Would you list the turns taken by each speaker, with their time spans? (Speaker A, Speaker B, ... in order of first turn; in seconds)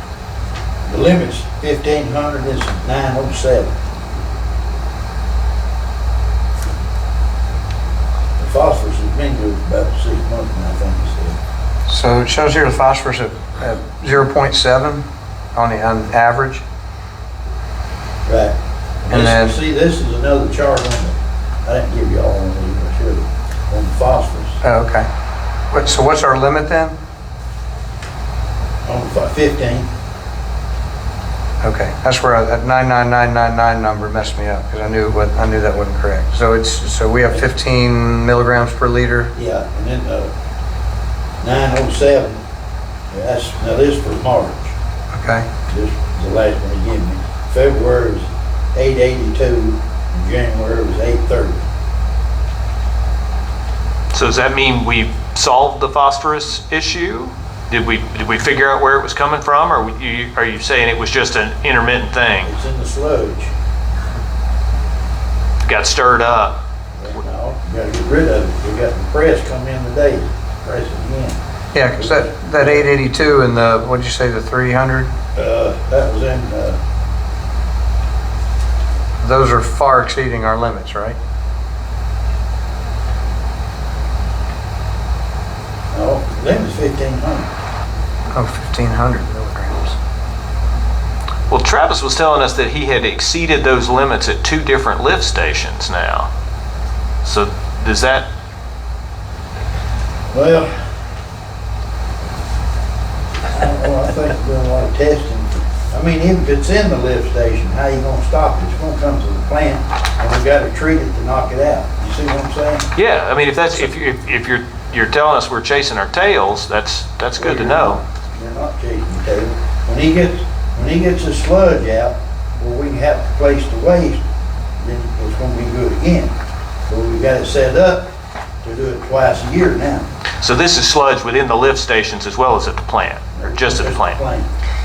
Speaker A: 0.9-3.7, 8.4-11.4, 18.2-18.6, 19.1-24.6, 28.9-29.9, 39.4-40.3, 41.4-42.4, 43.1-44.7, 45.7-51.6, 62.4-63.5, 67.0-71.4, 72.0-72.9, 75.3-76.8, 85.9-87.5, 100.3-100.7, 103.5-112.9, 117.4-124.2, 124.8-126.3, 126.9-128.1, 128.6-130.1, 133.3-134.5
Speaker B: 11.9-15.1, 15.6-16.6, 19.1-19.6, 24.6-25.1, 25.7-27.0, 31.6-39.3, 45.1-45.5, 71.7-75.1, 79.2-81.2, 88.3-90.0
Speaker C: 54.1-62.5, 65.6-66.5, 91.5-96.3, 97.2-98.3, 113.0-118.0, 130.4-134.2